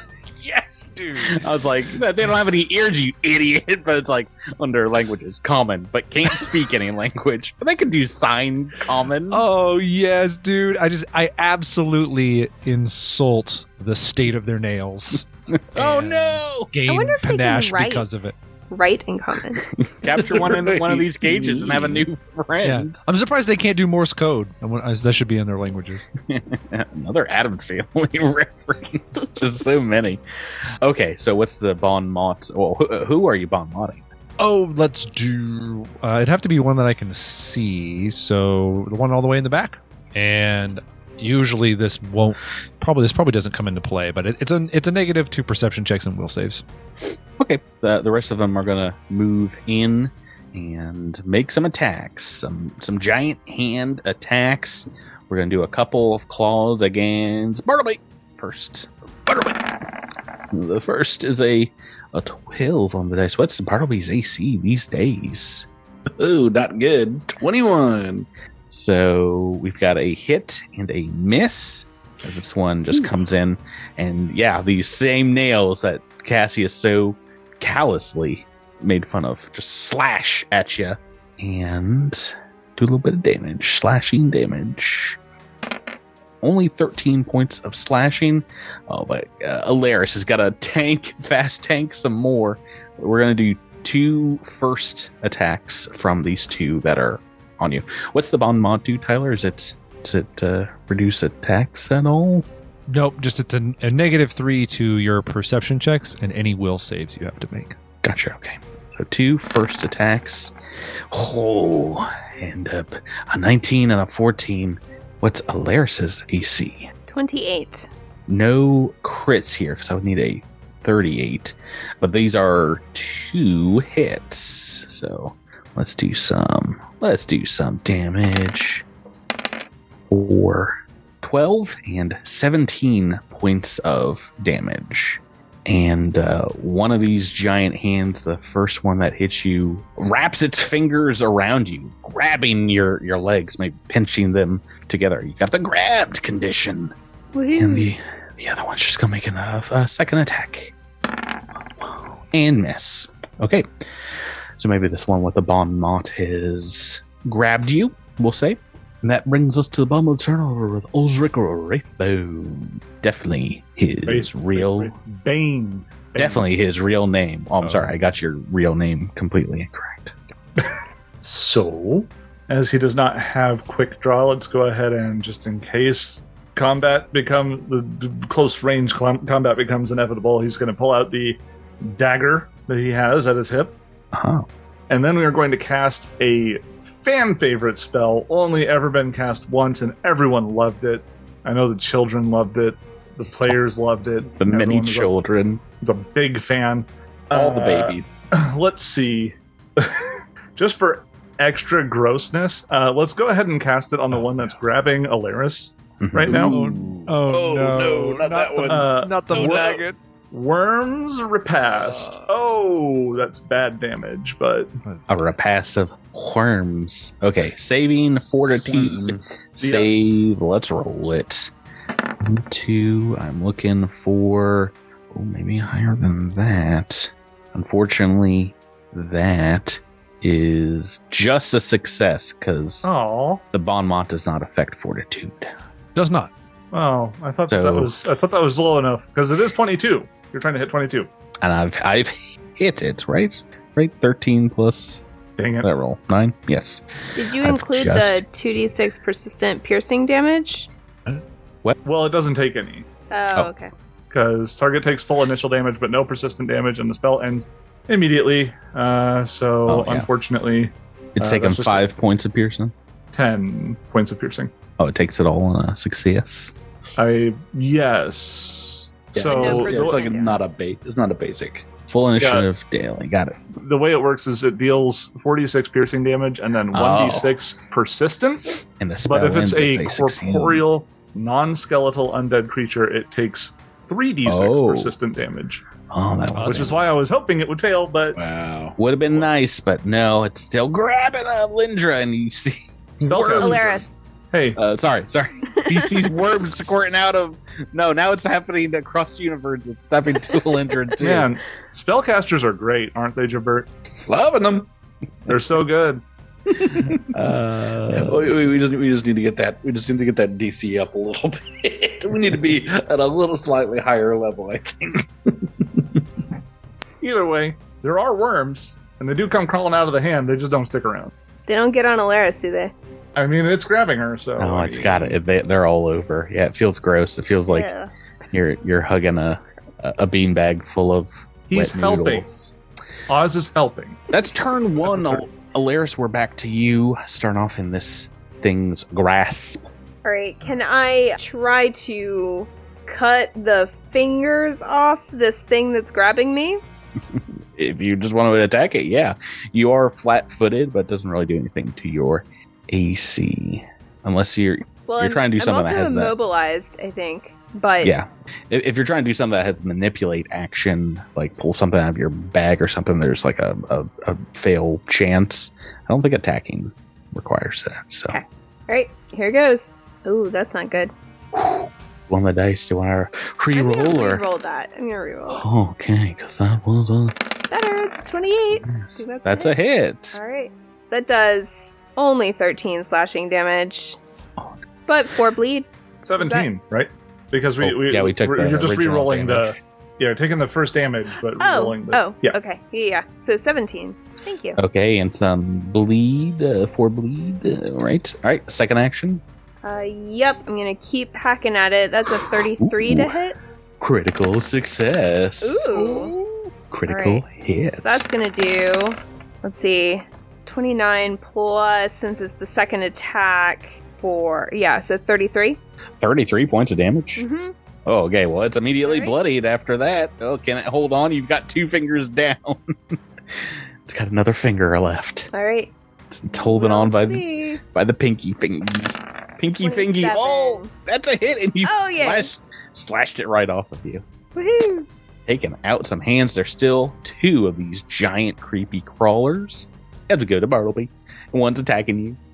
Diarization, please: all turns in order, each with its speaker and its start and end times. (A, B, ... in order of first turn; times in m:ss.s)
0:00.4-0:01.5 A
0:01.2-0:09.4 B
0:09.3-0:18.4 A
0:15.5-0:16.7 B
0:16.9-0:19.6 C
0:19.8-0:23.0 B
0:20.1-0:22.1 D
0:22.6-0:26.1 A
0:26.3-0:30.2 B
0:30.8-0:34.0 B
0:34.4-0:46.6 A
0:47.4-0:59.7 B
1:00.5-1:05.7 B
1:06.2-1:08.3 D
1:08.7-1:25.2 B
1:26.4-1:42.5 B
1:42.9-1:47.8 A
1:48.0-1:50.5 B
1:51.1-1:56.9 B
1:57.1-1:57.9 C
1:58.3-2:08.9 B
2:10.1-2:26.9 B
2:27.3-2:27.9 C
2:27.6-2:30.7 B
2:31.8-2:33.7 B
2:34.6-2:44.9 B
2:44.1-2:46.5 E
2:46.2-2:50.2 B
2:47.6-2:48.0 A
2:51.2-3:03.7 E
3:04.1-3:04.5 B
3:04.9-3:15.1 E
3:14.3-3:15.6 B
3:15.8-3:26.6 E
3:17.3-3:18.2 D
3:24.1-3:24.5 A
3:26.0-3:26.5 B
3:26.3-3:29.8 D
3:26.4-3:30.0 A
3:28.7-3:29.8 E
3:30.3-3:34.7 E
3:31.7-3:32.3 D
3:34.8-3:35.3 A
3:35.1-3:41.5 B
3:38.6-3:39.2 D
3:39.6-3:40.1 E
3:42.2-3:52.9 B
3:52.8-3:53.4 E
3:53.5-3:55.5 B
3:56.0-3:56.3 A
3:56.7-4:01.1 E
3:57.5-3:57.9 B
4:01.4-4:05.0 B
4:05.4-4:05.7 E
4:05.6-4:06.8 B
4:07.2-4:10.7 C
4:07.4-4:08.2 B
4:11.8-4:12.9 E
4:13.1-4:13.7 C
4:14.1-4:21.8 E
4:19.7-4:20.1 B
4:21.2-4:22.7 B
4:23.1-4:24.5 E
4:24.8-4:26.5 B
4:27.0-4:30.1 E
4:29.1-4:31.7 D
4:29.2-4:30.4 C
4:31.9-4:33.4 B
4:32.2-4:32.5 E
4:33.6-4:38.4 E
4:36.7-4:37.4 B
4:38.8-4:40.6 B
4:39.0-4:45.6 E
4:44.2-4:45.0 B
4:45.9-4:46.8 B
4:46.3-4:46.7 A
4:46.4-4:48.2 E
4:48.2-4:48.8 D
4:48.8-4:53.8 B
4:53.1-4:54.6 E
4:53.4-4:54.0 C
4:54.6-5:01.3 B
4:55.6-4:55.9 C
5:01.0-5:03.7 E
5:04.1-5:04.7 D
5:05.3-5:06.0 E
5:06.5-5:07.2 D
5:06.9-5:08.4 B
5:07.9-5:16.0 D
5:17.0-5:21.1 E
5:21.5-5:22.7 C
5:23.2-5:25.2 E
5:24.4-5:27.7 B
5:27.5-5:27.9 C
5:28.3-5:32.5 B
5:31.5-5:32.2 E
5:33.1-5:34.0 E
5:34.1-5:39.6 B
5:34.8-5:35.2 E
5:40.0-5:46.6 C
5:47.1-5:56.1 B
5:54.9-5:58.0 C
5:57.8-6:08.2 B
6:08.1-6:10.9 C
6:11.3-6:14.2 B
6:13.5-6:15.4 C
6:15.3-6:17.2 B
6:17.4-6:19.6 C
6:18.6-6:20.2 B
6:20.1-6:24.0 C
6:24.9-6:26.5 C
6:26.0-6:32.4 E
6:27.6-6:29.6 B
6:31.4-6:34.6 C
6:34.6-6:39.2 B
6:39.6-6:43.4 C
6:42.6-6:43.1 B
6:43.8-6:48.0 B
6:45.4-6:46.1 C
6:46.9-6:55.6 C
6:56.0-6:57.2 B
6:57.2-6:57.5 C
6:57.9-7:05.3 B
6:58.8-6:59.2 C
7:05.3-7:05.7 C
7:06.1-7:14.0 B
7:06.3-7:07.6 C
7:09.5-7:10.7 C
7:11.6-7:12.3 C
7:14.4-7:14.9 C
7:15.3-7:22.2 B